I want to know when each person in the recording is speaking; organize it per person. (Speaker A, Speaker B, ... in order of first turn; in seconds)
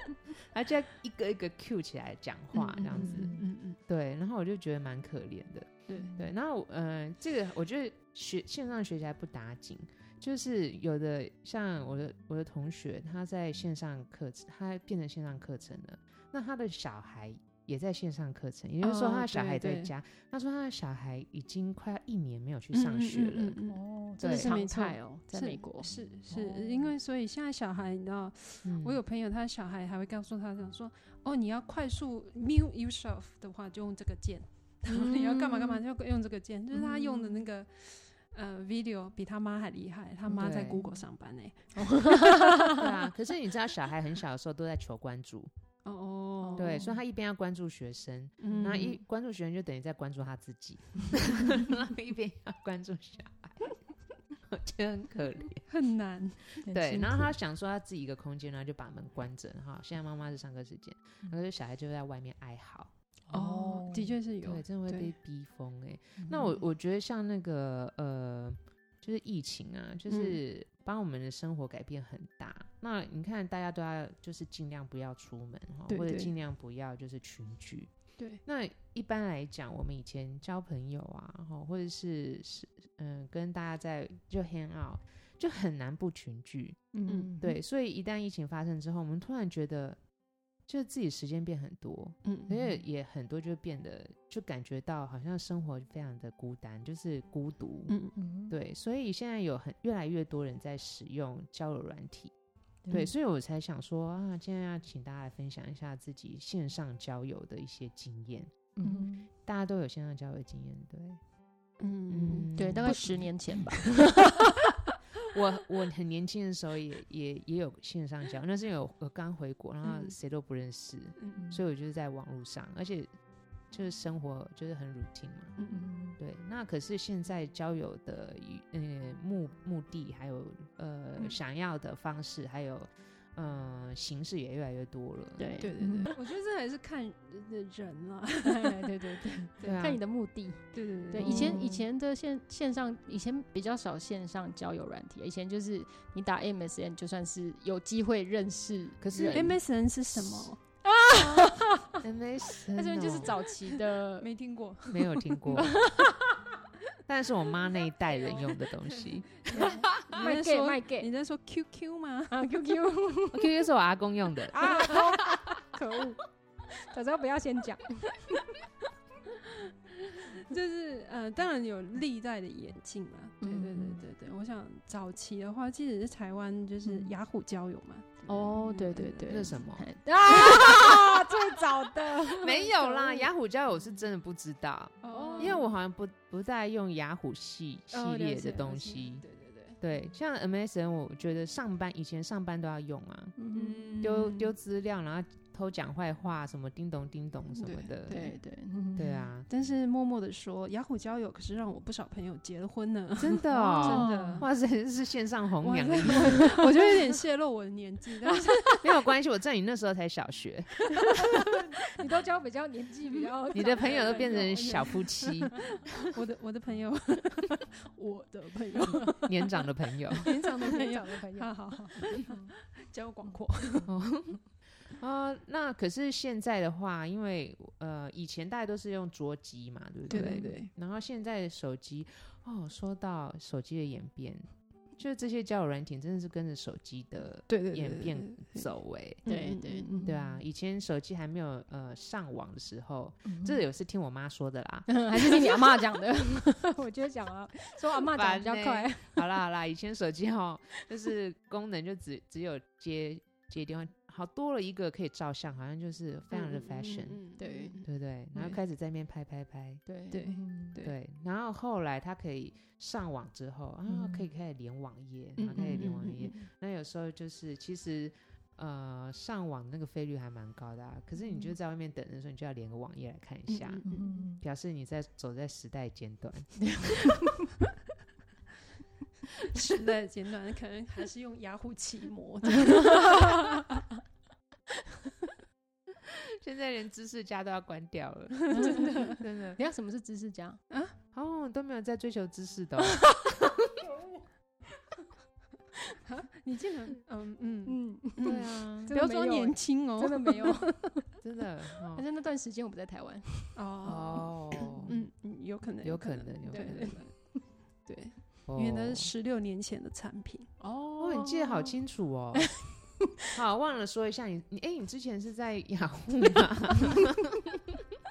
Speaker A: 0.3-23.6, 24.2-24.6, 28.6-29.0, 40.4-40.8, 42.6-45.5, 46.6-53.8, 54.5-55.6, 56.6-62.9, 64.4-77.9, 78.5-86.9, 87.4-90.0, 90.7-98.0, 98.5-102.3, 102.9-108.5, 109.4-111.2, 112.1-113.7, 115.3-123.1, 123.7-125.6, 126.2-135.5, 139.6-140.0, 141.2-141.6, 149.0-149.6, 151.2-153.3, 154.9-155.7, 157.1-160.2, 163.3-165.4, 179.2-179.8, 180.7-180.9, 182.4-189.2, 189.8-193.3, 194.0-198.2, 198.9-199.5, 203.2-206.9, 208.8-210.9, 213.5-215.8, 219.2-220.3, 223.9-224.4, 225.0-239.2, 240.0-245.5, 248.1-257.2, 257.8-259.8, 260.8-273.8, 274.4-277.1, 286.0-289.6, 291.1-293.6, 298.2-298.9, 301.2-302.0, 303.8-305.0, 305.8-307.0, 308.5-309.1, 311.0-312.6, 313.3-317.6
Speaker B: 2.5-3.8, 18.8-19.9, 22.7-42.4, 45.8-46.9, 48.4-49.0, 55.7-56.7, 63.3-65.1, 70.1-70.4, 75.9-76.3, 87.1-87.3, 92.2-92.6, 97.9-98.1, 108.8-109.1, 111.8-113.2, 119.8-120.2, 125.6-125.8, 135.6-139.9, 140.7-141.8, 149.2-150.6, 153.0-156.0, 158.1-158.6, 159.4-162.4, 164.5-165.3, 169.4-179.5, 180.4-183.2, 185.0-185.7, 187.9-189.8, 193.5-194.5, 197.5-198.4, 199.5-204.5, 205.6-208.8, 213.5-223.9, 230.1-230.7, 237.5-238.7, 239.2-240.0, 256.3-258.6, 260.1-260.9, 265.4-266.3, 273.5-274.2, 279.5-283.8, 288.6-289.0, 290.7-290.9, 296.0-300.9, 303.5-310.5
Speaker C: 2.9-3.4, 5.9-6.3, 23.7-26.9, 34.9-35.8, 36.7-37.4, 41.8-42.8, 46.4-46.9, 56.6-57.3, 63.3-64.1, 66.2-66.5, 86.9-87.5, 98.2-98.5, 102.8-103.1, 108.8-109.3, 112.5-114.5, 121.3-121.6, 125.7-126.2, 135.4-136.1, 138.4-149.5, 150.8-152.0, 152.7-154.3, 155.5-156.4, 159.5-161.1, 162.3-163.5, 164.5-166.2, 166.8-168.3, 173.4-174.0, 176.8-177.1, 178.2-182.7, 185.1-185.6, 193.4-194.1, 198.1-199.3, 203.5-204.5, 206.1-206.6, 211.1-214.9, 220.4-222.5, 230.1-230.6, 239.2-240.4, 243.2-243.6, 244.9-249.2, 257.4-257.8, 259.9-260.8, 263.9-264.2, 265.6-266.4, 273.8-274.4, 276.6-277.5, 282.6-283.6, 288.5-290.6, 297.7-301.0, 301.9-305.0, 306.5-307.4, 310.6-311.7